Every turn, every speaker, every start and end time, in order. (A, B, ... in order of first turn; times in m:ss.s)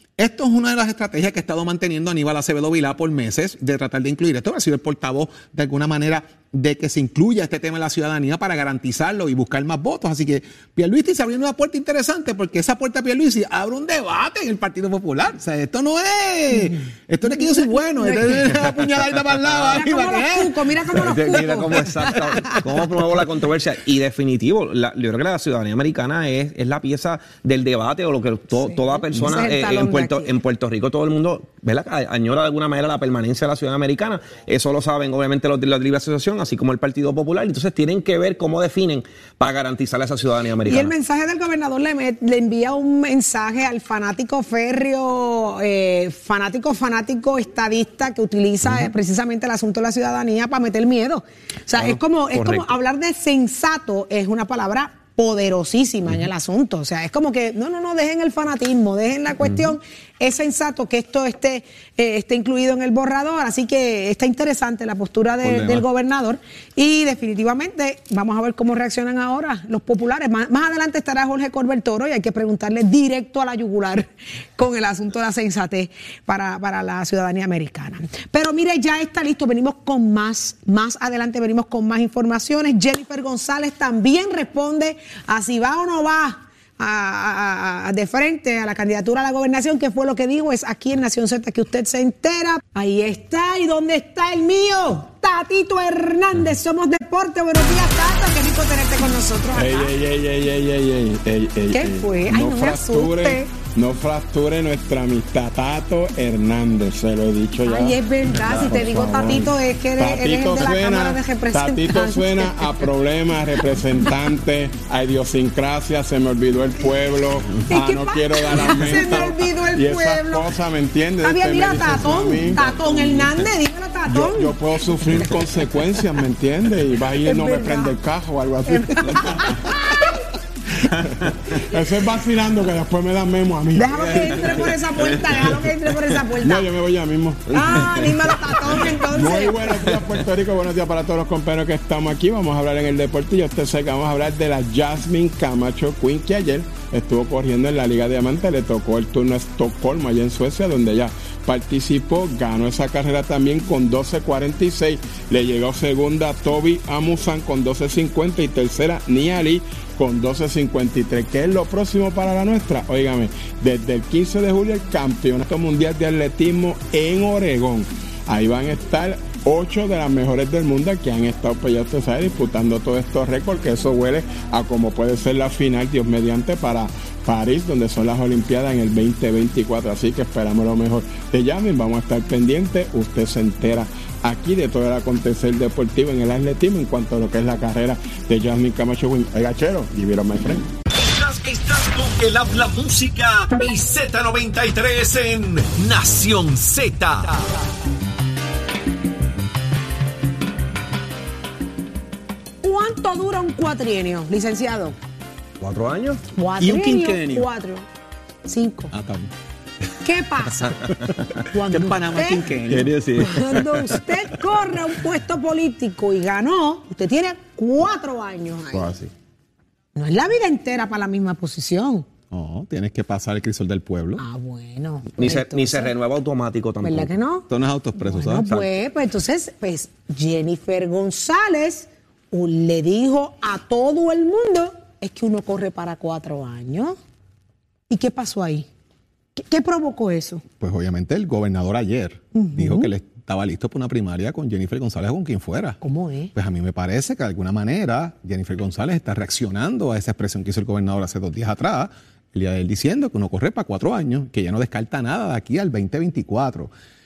0:00.2-0:21.4 A
0:17.3-0:18.6 B
0:19.7-0:22.6 B
0:20.9-0:40.9 C
0:28.7-0:30.3 B
0:40.6-1:39.9 B
0:51.8-0:52.7 C
1:05.4-1:05.8 A
1:39.5-2:03.4 D
1:41.7-1:43.5 B
1:47.6-1:52.9 B
1:57.7-2:00.5 B
2:01.2-2:04.6 B
2:04.0-2:10.0 D
2:07.2-2:08.0 B
2:08.6-2:10.2 B
2:11.5-2:15.6 D
2:13.7-2:16.7 B
2:15.0-2:15.5 C
2:16.3-3:10.7 D
2:17.5-2:19.9 B
3:10.9-3:17.4 E
3:22.6-3:24.9 B
3:25.6-3:26.2 C
3:26.4-3:27.8 B
3:26.6-3:27.5 A
3:28.4-3:28.9 B
3:28.9-3:29.3 A
3:30.0-3:30.8 B
3:31.5-3:32.5 B
3:31.6-3:32.9 A
3:32.7-3:34.0 C
3:33.2-3:38.9 B
3:38.7-3:39.1 C
3:39.9-3:42.0 B
3:42.3-3:44.2 A
3:44.2-3:45.9 B
3:45.2-3:47.1 C
3:46.8-3:57.0 B
3:47.5-3:48.5 A
3:57.9-3:58.7 B
3:59.4-4:00.4 B
4:00.6-4:05.8 A
4:02.3-4:02.9 B
4:05.8-4:06.3 B
4:06.3-4:16.7 A